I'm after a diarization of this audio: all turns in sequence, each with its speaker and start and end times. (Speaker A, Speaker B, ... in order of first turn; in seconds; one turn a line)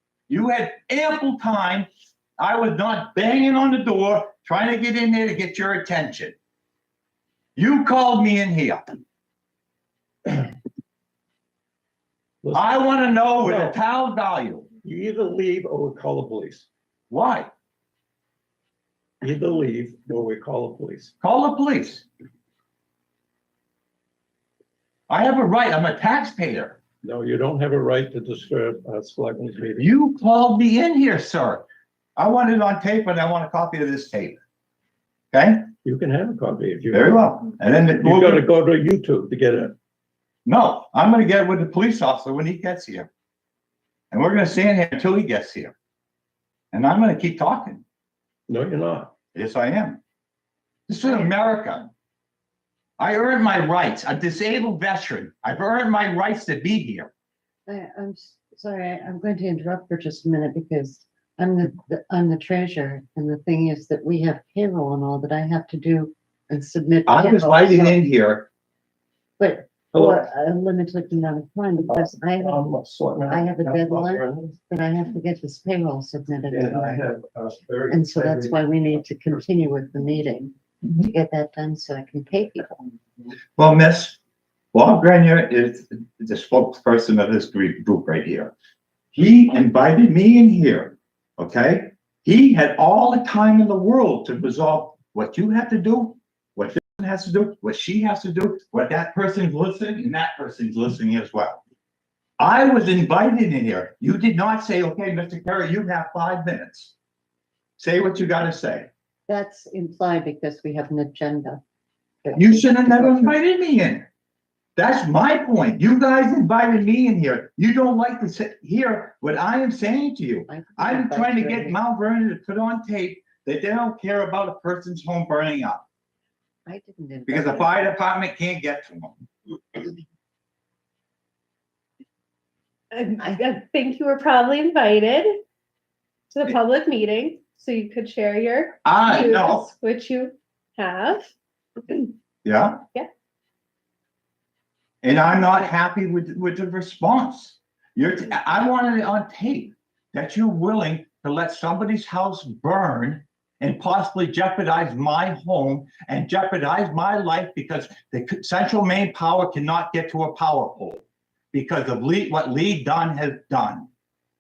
Speaker A: 0.3-1.9
Speaker A: 2.4-6.4
Speaker A: 7.6-8.8
Speaker B: 10.3-10.5
Speaker B: 12.4-13.8
Speaker A: 12.5-14.7
Speaker B: 14.8-16.7
Speaker A: 17.1-17.5
Speaker B: 19.2-21.1
Speaker A: 21.2-22.1
Speaker A: 25.1-26.8
Speaker B: 27.0-29.9
Speaker A: 29.8-31.7
Speaker A: 32.2-34.4
Speaker A: 35.3-35.7
Speaker B: 35.8-39.8
Speaker A: 36.9-38.5
Speaker A: 40.5-43.1
Speaker A: 44.1-45.8
Speaker A: 46.7-47.8
Speaker B: 48.5-49.1
Speaker A: 49.3-50.0
Speaker A: 50.9-51.9
Speaker C: 51.0-51.3
Speaker A: 53.0-57.1
Speaker C: 57.7-68.0
Speaker A: 67.1-68.5
Speaker C: 69.4-72.6
Speaker B: 69.9-70.3
Speaker B: 71.9-74.6
Speaker C: 73.3-77.1
Speaker B: 76.5-78.6
Speaker C: 77.9-82.8
Speaker A: 80.8-81.1
Speaker A: 83.6-84.2
Speaker A: 84.7-88.5
Speaker A: 89.1-101.6
Speaker A: 102.4-107.0
Speaker A: 107.8-108.9
Speaker C: 109.3-111.6
Speaker C: 112.2-113.3
Speaker A: 112.3-114.1
Speaker A: 114.8-125.8
Speaker C: 120.5-121.8
Speaker C: 126.7-128.0
Speaker A: 127.3-129.2
Speaker D: 132.9-135.4
Speaker D: 136.3-141.3
Speaker A: 138.8-139.7
Speaker D: 141.9-142.1
Speaker A: 142.4-142.8
Speaker A: 145.0-163.9